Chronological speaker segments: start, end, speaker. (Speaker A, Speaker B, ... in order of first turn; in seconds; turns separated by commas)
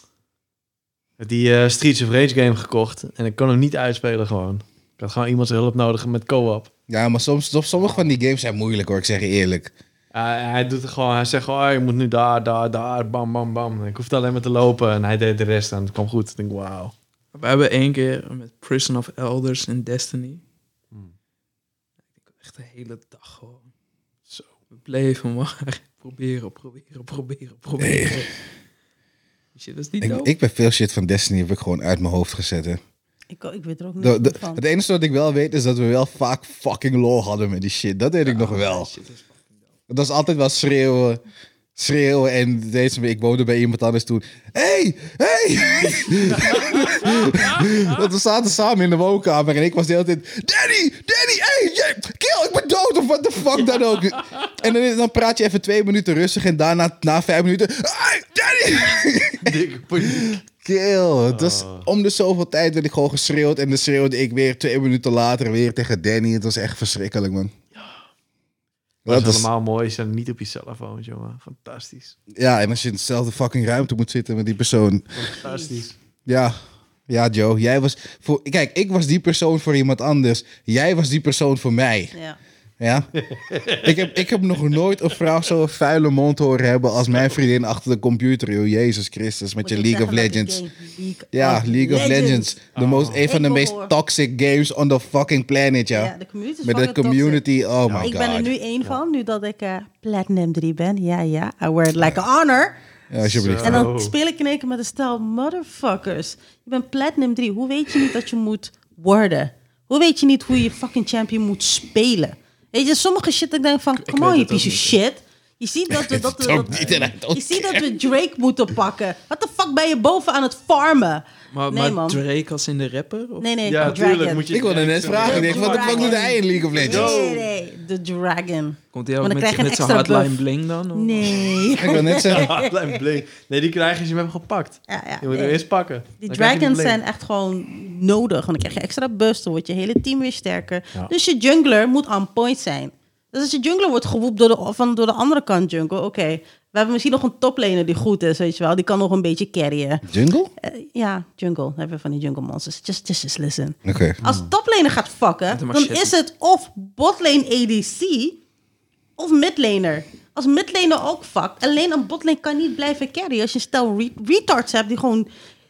Speaker A: 1.2-6.7, Speaker B: 6.9-9.7, Speaker A: 7.8-8.1, Speaker A: 10.1-16.9, Speaker C: 17.3-20.4, Speaker C: 22.3-23.6, Speaker C: 24.8-28.3, Speaker B: 27.8-28.3, Speaker C: 29.6-30.3, Speaker B: 30.0-32.8, Speaker D: 33.3-34.6, Speaker B: 34.0-38.9, Speaker C: 38.2-39.4, Speaker B: 39.9-41.2, Speaker B: 41.8-67.5, Speaker A: 45.9-47.1, Speaker A: 59.4-60.4, Speaker A: 61.3-61.9, Speaker B: 69.1-69.5, Speaker A: 69.1-72.2, Speaker B: 72.3-75.3, Speaker A: 75.2-76.0, Speaker D: 75.4-75.8, Speaker B: 76.3-76.6, Speaker B: 77.1-82.1, Speaker D: 82.1-82.4, Speaker B: 82.8-83.1, Speaker A: 83.2-84.1, Speaker B: 83.8-90.6, Speaker D: 89.6-92.6, Speaker B: 91.3-96.1, Speaker A: 92.7-93.2, Speaker D: 93.2-93.9, Speaker D: 95.9-97.4, Speaker B: 96.6-98.5, Speaker A: 97.9-98.1, Speaker D: 98.0-102.8, Speaker B: 103.1-103.9, Speaker A: 103.2-104.1, Speaker D: 103.6-122.2, Speaker C: 114.0-115.0, Speaker B: 115.9-118.0, Speaker A: 116.7-117.1, Speaker C: 121.5-123.5, Speaker D: 123.4-124.5, Speaker A: 123.7-127.5, Speaker B: 124.5-127.2, Speaker D: 125.2-130.4, Speaker C: 128.9-131.4, Speaker D: 130.9-133.0, Speaker B: 131.8-132.5, Speaker A: 131.9-137.0, Speaker D: 134.9-135.6, Speaker D: 136.2-150.1, Speaker B: 150.1-150.5, Speaker D: 150.6-158.4, Speaker B: 153.8-154.2, Speaker A: 154.2-154.5, Speaker C: 155.5-156.1, Speaker D: 159.2-165.3